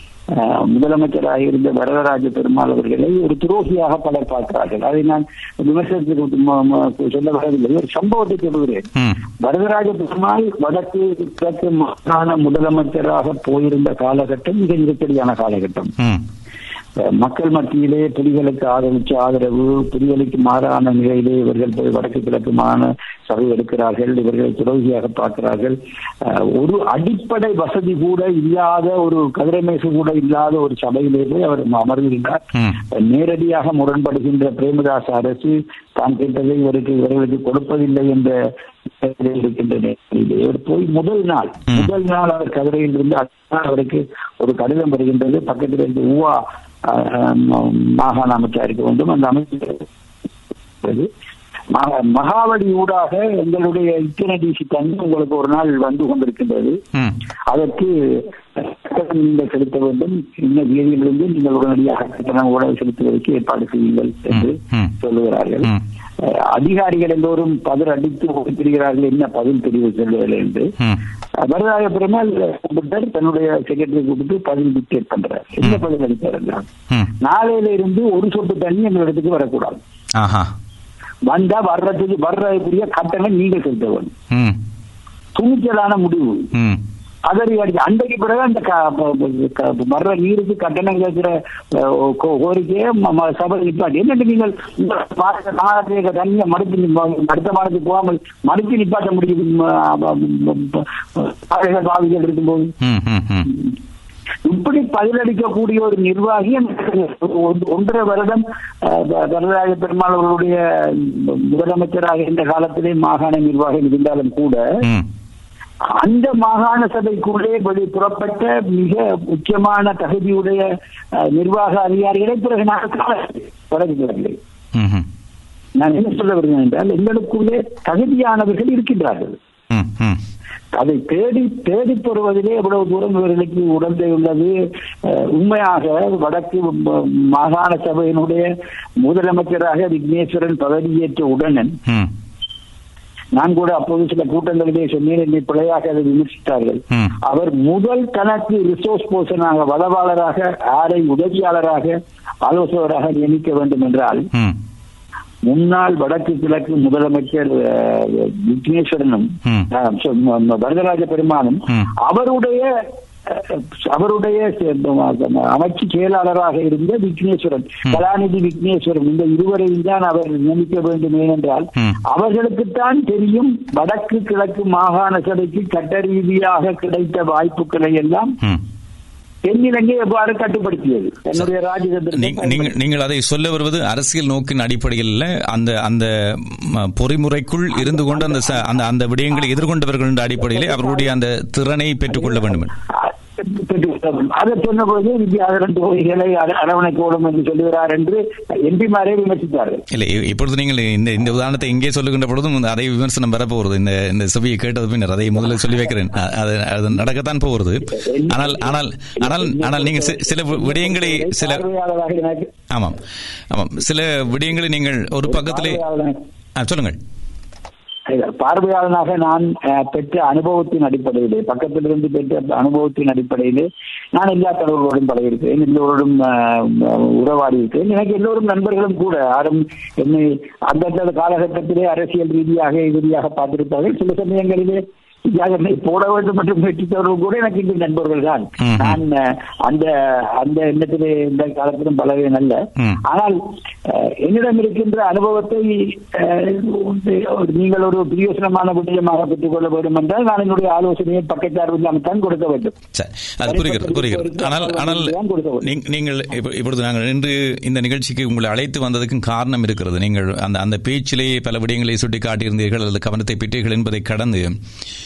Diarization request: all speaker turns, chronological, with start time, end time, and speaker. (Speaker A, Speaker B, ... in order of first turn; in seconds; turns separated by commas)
Speaker A: 0.3-8.8, Speaker A: 9.4-15.9, Speaker B: 16.0-16.2, Speaker A: 17.0-38.3, Speaker A: 39.0-49.9, Speaker A: 50.8-51.1, Speaker A: 51.7-56.8, Speaker A: 57.5-70.7, Speaker B: 64.3-64.9, Speaker A: 71.4-76.7, Speaker A: 77.2-79.8, Speaker B: 80.1-80.5, Speaker A: 81.3-84.1, Speaker B: 84.3-84.6, Speaker A: 85.3-86.5, Speaker B: 86.5-86.8, Speaker A: 87.2-102.7, Speaker B: 102.8-103.5, Speaker A: 104.5-114.7, Speaker A: 116.0-124.3, Speaker B: 124.7-125.1, Speaker A: 125.8-129.4, Speaker B: 129.7-130.2, Speaker A: 130.7-138.5, Speaker A: 139.0-141.8, Speaker A: 143.3-154.3, Speaker A: 155.4-162.7, Speaker A: 163.3-178.3, Speaker A: 179.4-182.7, Speaker B: 182.1-192.7, Speaker A: 187.8-188.6, Speaker A: 192.9-199.8, Speaker B: 199.9-211.6, Speaker A: 207.9-212.5, Speaker B: 212.7-215.8, Speaker A: 215.2-216.2, Speaker B: 216.6-217.0, Speaker A: 218.1-252.7, Speaker B: 238.6-239.0, Speaker B: 252.9-264.5, Speaker A: 253.4-255.7